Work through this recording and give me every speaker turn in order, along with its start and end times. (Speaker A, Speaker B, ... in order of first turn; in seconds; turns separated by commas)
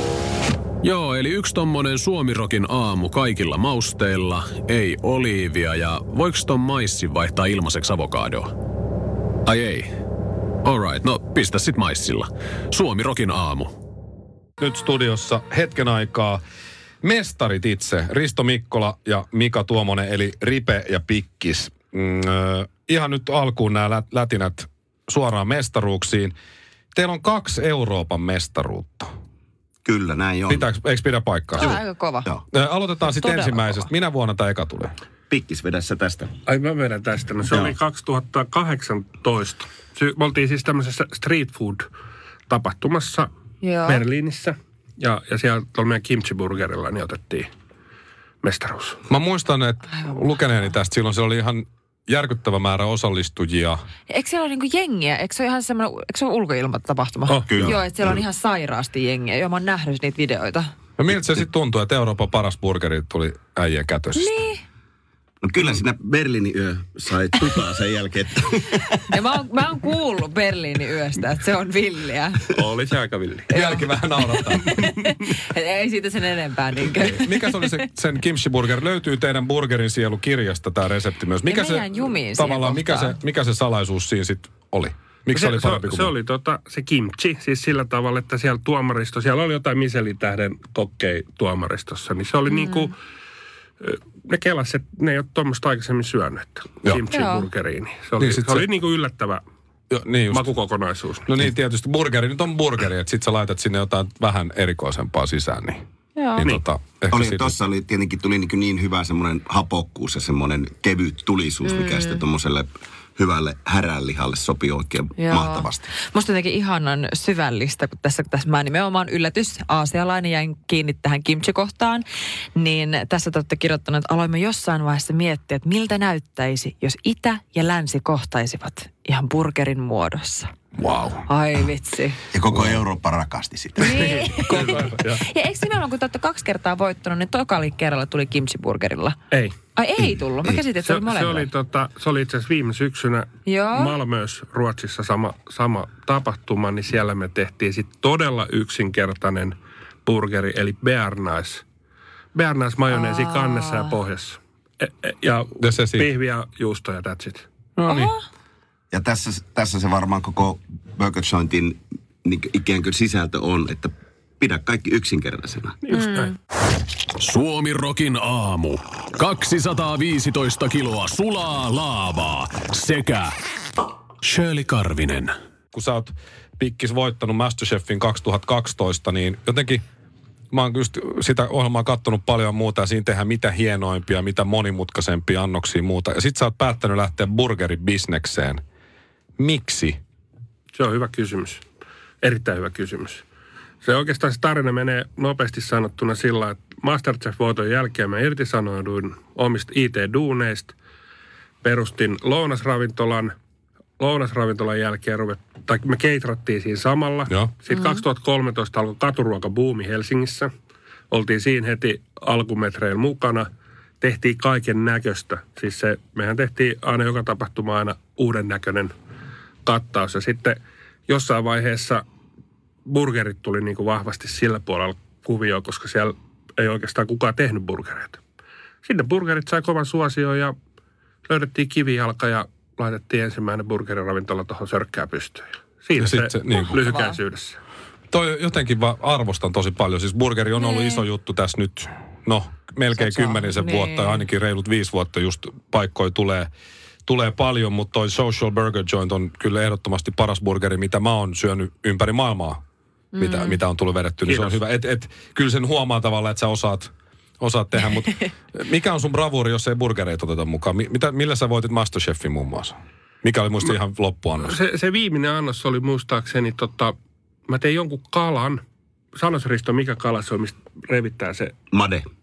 Speaker A: 0.8-8.5, Speaker A: 9.4-9.9, Speaker A: 10.6-13.7, Speaker B: 14.6-16.4, Speaker B: 17.0-26.3, Speaker B: 26.9-29.1, Speaker C: 29.8-30.7, Speaker B: 30.5-31.8, Speaker D: 31.6-32.3, Speaker C: 31.6-32.4, Speaker B: 32.5-34.9, Speaker D: 33.0-33.9, Speaker C: 35.3-36.3, Speaker E: 36.5-41.9, Speaker E: 42.5-43.3, Speaker D: 43.6-44.0, Speaker E: 43.9-47.5, Speaker E: 48.4-49.0, Speaker B: 49.1-53.8, Speaker D: 49.9-50.6, Speaker D: 54.1-60.7, Speaker E: 57.3-57.5, Speaker C: 57.5-58.2, Speaker B: 61.0-64.3, Speaker D: 64.1-64.6, Speaker C: 65.4-69.1, Speaker D: 69.1-72.5, Speaker E: 72.6-73.5, Speaker B: 73.5-74.7, Speaker D: 73.5-77.5, Speaker B: 77.0-86.1, Speaker D: 81.4-83.1, Speaker E: 85.3-92.9, Speaker D: 92.5-92.9, Speaker E: 93.8-99.4, Speaker D: 97.1-97.5, Speaker B: 98.2-98.7, Speaker B: 99.9-100.5, Speaker E: 100.3-101.3, Speaker B: 101.2-105.8, Speaker D: 106.2-106.5, Speaker B: 106.4-107.5, Speaker C: 107.1-115.9, Speaker D: 111.6-112.2, Speaker D: 115.2-122.0, Speaker D: 122.5-130.5, Speaker B: 130.8-131.2, Speaker D: 131.2-132.2, Speaker C: 132.3-134.3, Speaker D: 133.8-139.2, Speaker B: 134.5-134.9, Speaker E: 134.5-135.2, Speaker E: 139.3-139.6, Speaker D: 139.7-141.5, Speaker E: 140.8-151.6, Speaker D: 143.4-144.0, Speaker E: 152.3-157.4, Speaker D: 152.9-153.9, Speaker B: 155.6-156.1, Speaker B: 157.8-158.1, Speaker D: 157.8-158.2, Speaker C: 158.9-165.8, Speaker E: 165.8-166.3, Speaker D: 165.9-166.3, Speaker A: 167.2-173.3, Speaker A: 174.2-175.3, Speaker B: 175.7-179.8, Speaker B: 180.5-188.6, Speaker B: 189.4-190.0, Speaker E: 190.7-191.6, Speaker E: 192.2-193.2, Speaker E: 193.8-200.7, Speaker E: 201.6-203.3, Speaker E: 204.0-210.5, Speaker B: 207.3-207.5, Speaker D: 207.7-208.0, Speaker E: 211.1-213.5, Speaker E: 214.0-218.9, Speaker E: 219.6-222.0, Speaker E: 222.8-228.2, Speaker E: 228.8-230.6, Speaker E: 231.2-237.6, Speaker B: 235.9-236.8, Speaker D: 236.7-237.2, Speaker B: 238.1-246.5, Speaker D: 240.6-241.0, Speaker D: 242.9-244.3, Speaker B: 247.1-252.6, Speaker D: 253.1-253.6, Speaker B: 253.2-264.6, Speaker E: 254.3-254.5, Speaker E: 264.4-266.9, Speaker E: 267.5-268.6, Speaker E: 269.1-271.5, Speaker C: 271.7-272.1